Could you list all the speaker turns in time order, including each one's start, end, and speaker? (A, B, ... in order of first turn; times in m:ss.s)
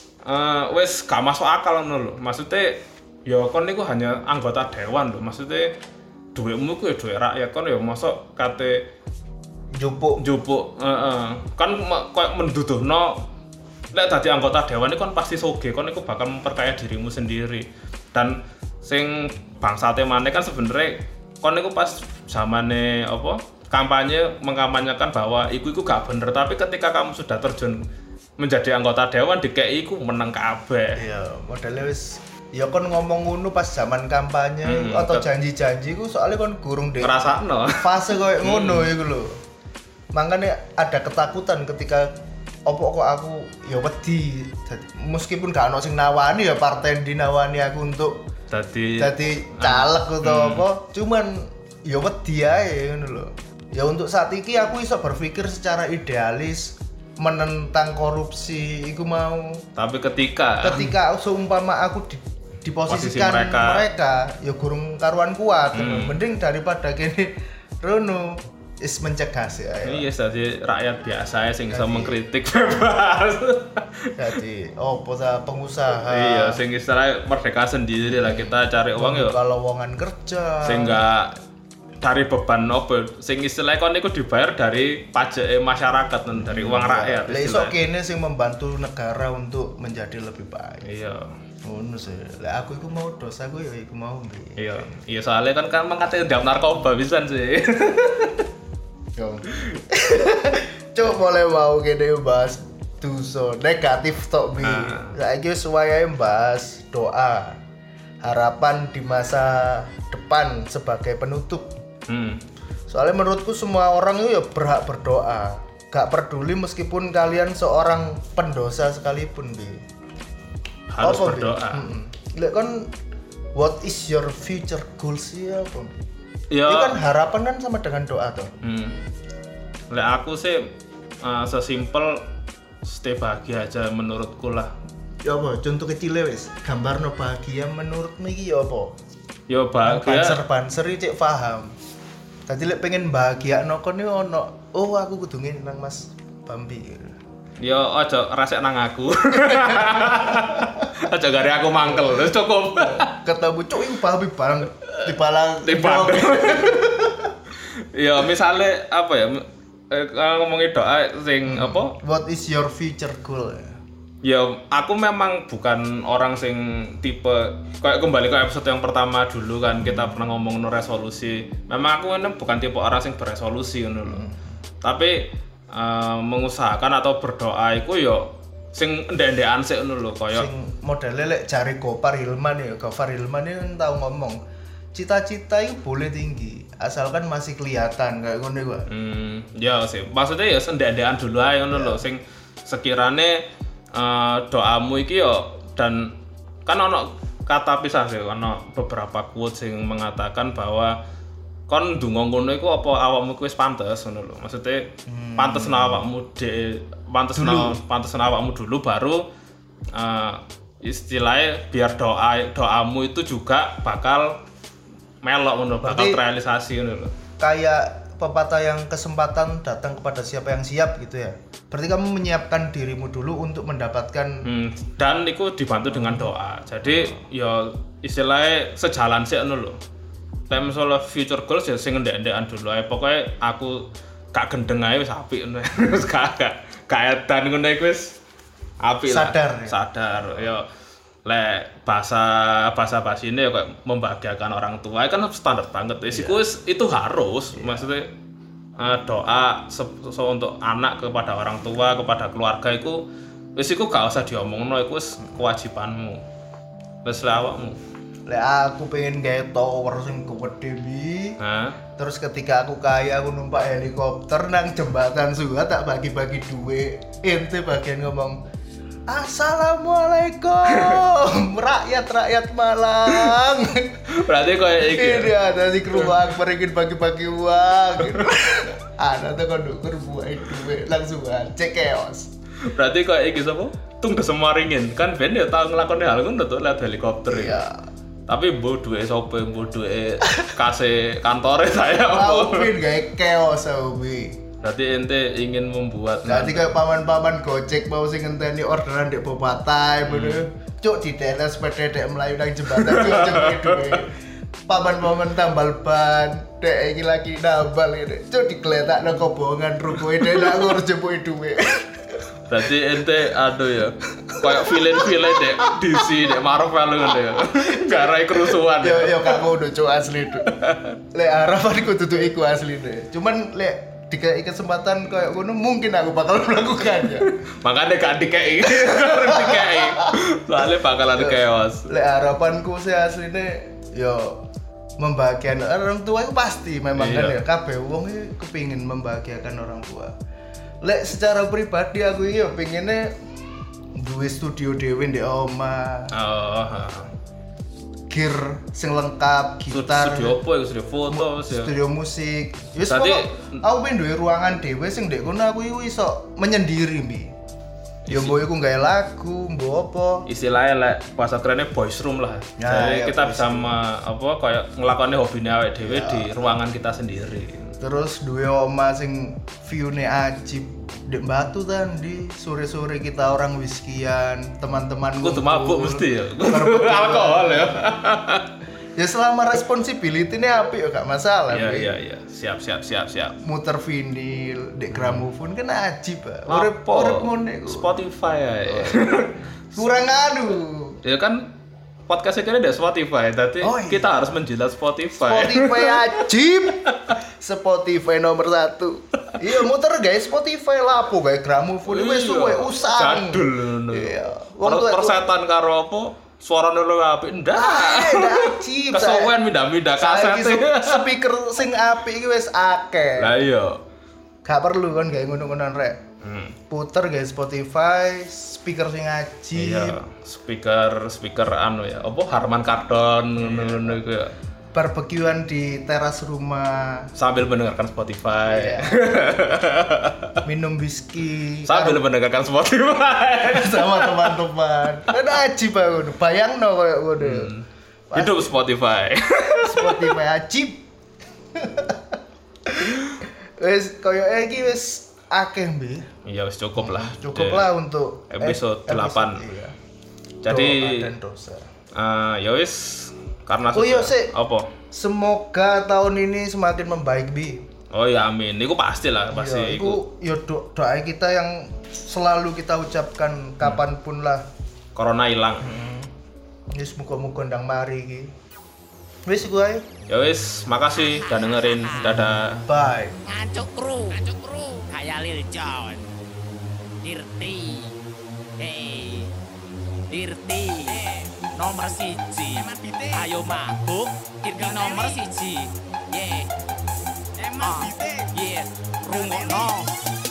0:00.2-0:05.7 A
0:06.4-0:08.9 A
0:09.8-0:10.2 B
0:10.2-0:13.2 A
0:13.9-0:27.8 A
0:28.4-0:31.0 A
0:31.0-0:39.3 B
0:34.6-0:35.3 A
0:37.0-0:37.9 A
0:38.4-0:38.9 A
0:40.1-0:42.1 B
0:42.7-0:48.2 B
0:48.5-0:50.6 A
0:49.0-0:59.6 B
0:59.8-1:00.9 A
1:00.6-1:07.3 B
1:02.9-1:03.9 A
1:05.7-1:06.2 A
1:07.8-1:10.1 B
1:09.8-1:14.1 A
1:11.7-1:12.2 B
1:14.2-1:16.6 B
1:16.0-1:19.4 A
1:19.0-1:21.0 B
1:20.6-1:21.4 A
1:22.0-1:27.8 A
1:26.4-1:30.9 B
1:30.8-1:31.3 A
1:31.7-1:34.9 B
1:34.6-1:38.4 A
1:39.2-1:47.6 B
1:44.6-1:45.1 A
1:48.2-1:51.7 B
1:52.1-1:52.4 A
1:52.9-1:59.8 B
2:00.9-2:01.8 A
2:01.0-2:02.9 B
2:03.6-2:05.9 B
2:06.5-2:07.0 A
2:06.6-2:08.5 B
2:08.6-2:09.0 A
2:09.9-2:10.6 A
2:11.2-2:12.2 A
2:12.8-2:14.7 A
2:15.2-2:18.9 B
2:19.5-2:20.4 A
2:19.9-2:21.7 B
2:22.5-2:27.1 B
2:27.6-2:33.1 A
2:29.6-2:30.7 B
2:31.9-2:32.2 B
2:32.8-2:37.3 B
2:35.6-2:36.8 A
2:37.8-2:42.0 A
2:41.5-2:43.8 B
2:44.2-2:54.2 A
2:54.0-2:54.6 B
2:54.8-3:00.5 A
3:00.3-3:04.4 B
3:04.9-3:08.9 B
3:08.9-3:16.1 A
3:11.7-3:12.0 B
3:16.7-3:21.0 A
3:21.7-3:29.2 A
3:25.1-3:26.0 B
3:27.4-3:27.8 B
3:29.9-3:34.4 A
3:35.2-3:37.1 A
3:35.8-3:36.2 B
3:37.4-3:44.4 B
3:44.4-3:49.8 A
3:46.0-3:46.3 B
3:50.5-3:58.2 A
3:58.8-4:00.7 A
3:59.1-3:59.8 B
4:01.2-4:08.1 A
4:06.1-4:06.4 B
4:07.6-4:07.9 B
4:08.8-4:13.0 A
4:13.6-4:16.2 A
4:17.0-4:17.8 A
4:18.3-4:21.4 B
4:21.4-4:21.8 A
4:22.0-4:28.4 B
4:29.1-4:34.0 B
4:30.7-4:31.0 A
4:34.1-4:35.3 A
4:34.8-4:42.3 B
4:35.9-4:36.2 A
4:38.0-4:38.3 A
4:42.6-4:47.6 A
4:47.3-4:47.8 B
4:48.3-4:52.7 A
4:52.1-4:54.4 B
4:54.6-4:56.7 A
4:56.3-5:04.1 B
5:00.0-5:00.4 A
5:02.7-5:04.0 A
5:04.7-5:11.9 B
5:10.2-5:10.6 A
5:12.5-5:19.4 A
5:14.3-5:15.7 B
5:17.5-5:20.6 B
5:20.4-5:21.0 A
5:21.1-5:27.4 B
5:27.6-5:31.9 A
5:28.6-5:34.4 B
5:35.0-5:40.1 B
5:37.0-5:37.4 A
5:40.8-5:43.1 B
5:44.0-5:46.1 B
5:46.1-5:47.1 A
5:48.1-5:50.3 B
5:49.7-5:51.7 A
5:51.1-5:57.3 B
5:52.9-5:53.4 A
5:58.1-5:58.4 A
5:58.1-6:00.2 B
6:00.3-6:07.7 A
6:02.6-6:03.7 B
6:05.8-6:06.3 B
6:07.8-6:17.8 B
6:15.2-6:18.5 A
6:19.0-6:21.9 B
6:21.5-6:23.4 A
6:23.4-6:27.9 B
6:24.9-6:25.3 A
6:26.5-6:29.8 A
6:28.7-6:31.0 B
6:31.0-6:31.5 A
6:32.1-6:36.2 A
6:33.6-6:34.1 B
6:35.2-6:45.2 B
6:41.9-6:51.0 A
6:47.5-6:49.3 B
6:50.0-6:53.3 B
6:53.2-6:53.8 A
6:54.4-6:56.0 B
6:56.2-6:56.6 A
6:56.7-7:00.0 B
6:59.6-7:04.3 A
7:03.4-7:04.0 B
7:04.7-7:07.1 B
7:07.2-7:10.4 A
7:08.5-7:09.0 B
7:10.4-7:12.0 B
7:11.7-7:14.3 A
7:13.5-7:17.5 B
7:17.2-7:20.2 A
7:18.1-7:18.6 B
7:19.6-7:20.8 B
7:21.6-7:22.0 B
7:22.7-7:23.1 B
7:23.6-7:26.1 B
7:26.2-7:27.7 A
7:26.8-7:29.8 B
7:28.3-7:29.4 A
7:30.4-7:31.1 A
7:30.5-7:31.7 B
7:32.0-7:34.7 A
7:33.7-7:34.3 B
7:34.9-7:37.6 B
7:37.9-7:40.0 A
7:39.3-7:44.4 B
7:45.0-7:45.7 A
7:45.6-7:46.1 B
7:46.7-7:48.3 B
7:49.3-7:49.8 B
7:50.1-7:52.6 A
7:51.2-7:52.1 C
7:52.0-7:53.2 B
7:53.3-7:56.0 C
7:57.0-7:58.0 C
7:58.6-7:59.3 C
8:00.1-8:06.5 C
8:07.4-8:09.9 C